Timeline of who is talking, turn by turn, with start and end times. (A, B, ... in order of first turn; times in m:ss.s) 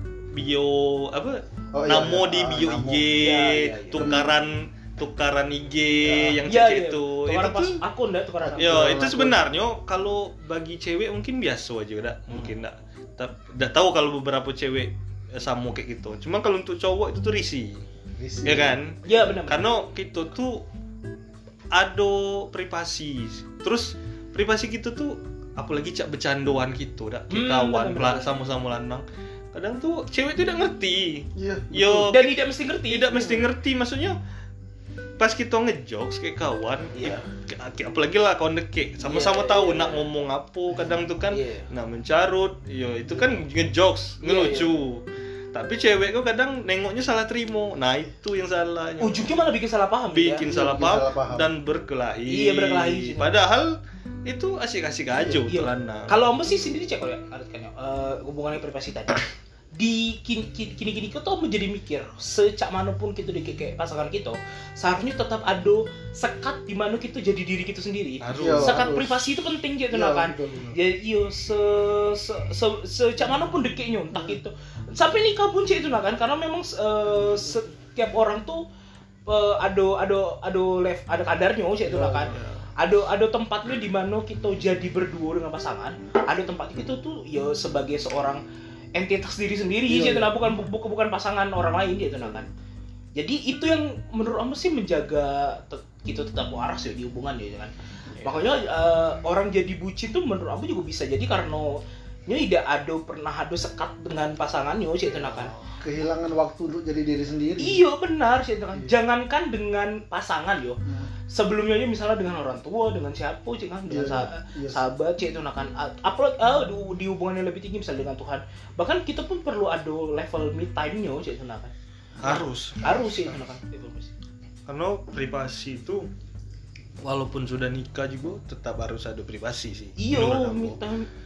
0:00.3-0:07.8 A
0:01.7-0:03.1 B
0:03.1-0:04.1 C
0:03.9-0:04.4 B
0:06.0-0:06.4 B
0:06.4-0:09.1 C
0:08.4-0:09.4 B
0:08.6-0:17.8 A
0:18.2-0:18.8 B
0:18.4-0:20.6 A
0:19.0-0:19.7 C
0:21.7-0:34.2 A
0:27.3-0:28.2 C
0:31.3-0:32.1 B
0:32.0-0:33.4 C
0:35.2-0:49.3 A
0:36.9-0:37.2 C
0:39.0-0:40.1 C
0:41.3-0:41.7 C
0:44.2-0:44.7 C
0:49.0-0:50.4 C
0:50.1-0:56.3 A
0:50.4-0:51.5 B
0:52.3-0:53.4 C
0:55.4-0:59.2 C
0:59.8-1:18.6 C
1:08.2-1:08.9 A
1:08.3-1:09.2 B
1:09.9-1:10.8 B
1:14.1-1:14.4 B
1:19.2-1:28.4 C
1:21.8-1:22.4 B
1:22.3-1:22.7 A
1:29.0-1:32.5 C
1:29.9-1:30.4 B
1:33.2-1:37.7 C
1:38.2-1:45.5 C
1:45.3-1:45.8 A
1:45.8-1:47.8 B
1:47.6-2:04.1 C
1:50.8-1:51.1 B
1:53.9-1:54.8 B
2:02.2-2:03.0 A
2:02.9-2:03.3 B
2:04.7-2:06.0 A
2:07.0-2:10.8 A
2:10.0-2:11.1 C